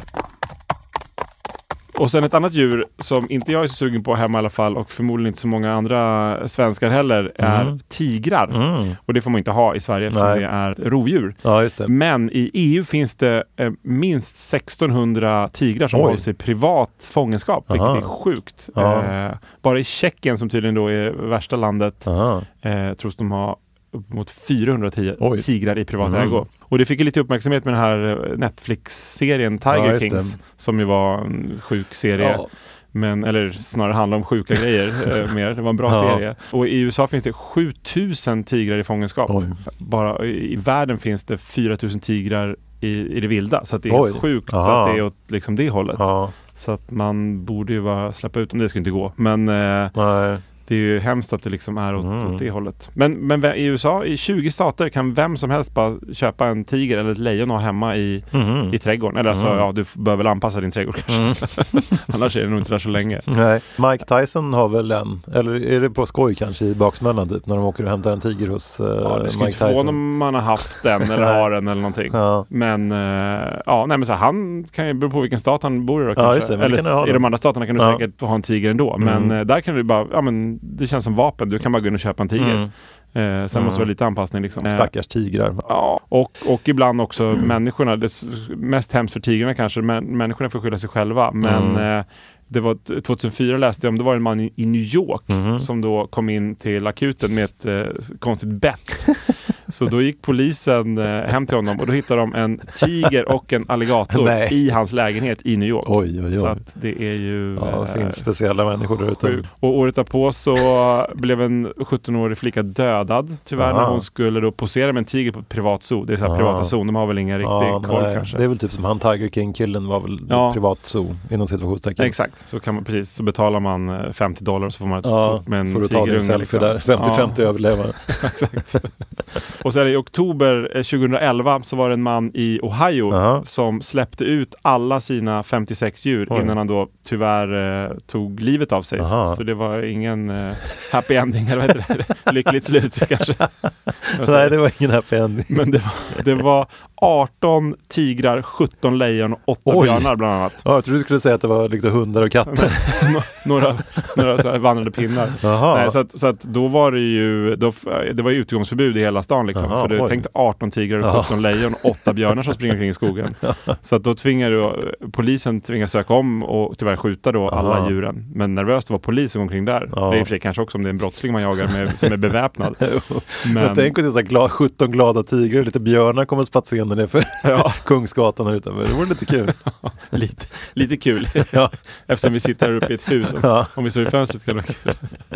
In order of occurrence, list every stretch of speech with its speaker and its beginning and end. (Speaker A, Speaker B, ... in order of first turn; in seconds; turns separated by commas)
Speaker A: 1.9-22.1, Speaker B: 7.4-7.8, Speaker B: 8.5-9.0, Speaker B: 10.1-10.4, Speaker B: 11.4-11.9, Speaker B: 15.9-16.2, Speaker B: 17.7-18.1, Speaker B: 18.7-19.1, Speaker B: 22.0-22.4, Speaker A: 22.6-50.0, Speaker B: 25.2-25.5, Speaker B: 26.0-26.4, Speaker B: 29.7-30.4, Speaker B: 32.2-32.5, Speaker B: 35.9-36.2, Speaker B: 39.3-39.6, Speaker B: 43.9-45.0, Speaker B: 46.0-46.3, Speaker B: 49.9-50.4, Speaker A: 50.6-63.3, Speaker B: 52.0-52.4, Speaker B: 58.3-58.8, Speaker B: 59.3-59.6, Speaker B: 61.1-62.0, Speaker B: 63.3-70.0, Speaker A: 69.0-84.9, Speaker B: 71.0-71.5, Speaker B: 72.1-72.5, Speaker B: 76.2-78.0, Speaker B: 79.0-79.4, Speaker B: 82.4-82.7, Speaker B: 83.5-83.9, Speaker B: 84.6-85.7, Speaker A: 85.7-108.3, Speaker B: 91.4-91.9, Speaker B: 95.3-95.7, Speaker B: 104.1-104.6, Speaker B: 105.8-106.6, Speaker B: 107.5-109.5, Speaker A: 109.2-118.4, Speaker B: 113.6-114.0, Speaker B: 116.2-116.7, Speaker B: 117.4-122.1, Speaker A: 120.3-120.6, Speaker A: 122.0-127.5, Speaker B: 125.0-128.4, Speaker A: 128.1-128.9, Speaker A: 129.5-143.5, Speaker B: 133.1-133.4, Speaker B: 136.3-136.6, Speaker B: 139.0-139.4, Speaker A: 144.1-144.6, Speaker B: 144.2-146.2, Speaker A: 145.5-150.6, Speaker B: 149.7-153.1, Speaker A: 152.5-172.8, Speaker B: 155.4-155.9, Speaker B: 159.5-160.3, Speaker B: 161.0-161.5, Speaker B: 163.4-163.7, Speaker B: 167.5-167.9, Speaker B: 169.9-170.3, Speaker B: 172.8-179.6, Speaker A: 173.4-173.9, Speaker A: 177.4-177.8, Speaker A: 179.6-185.1, Speaker B: 181.5-181.7, Speaker B: 183.2-183.8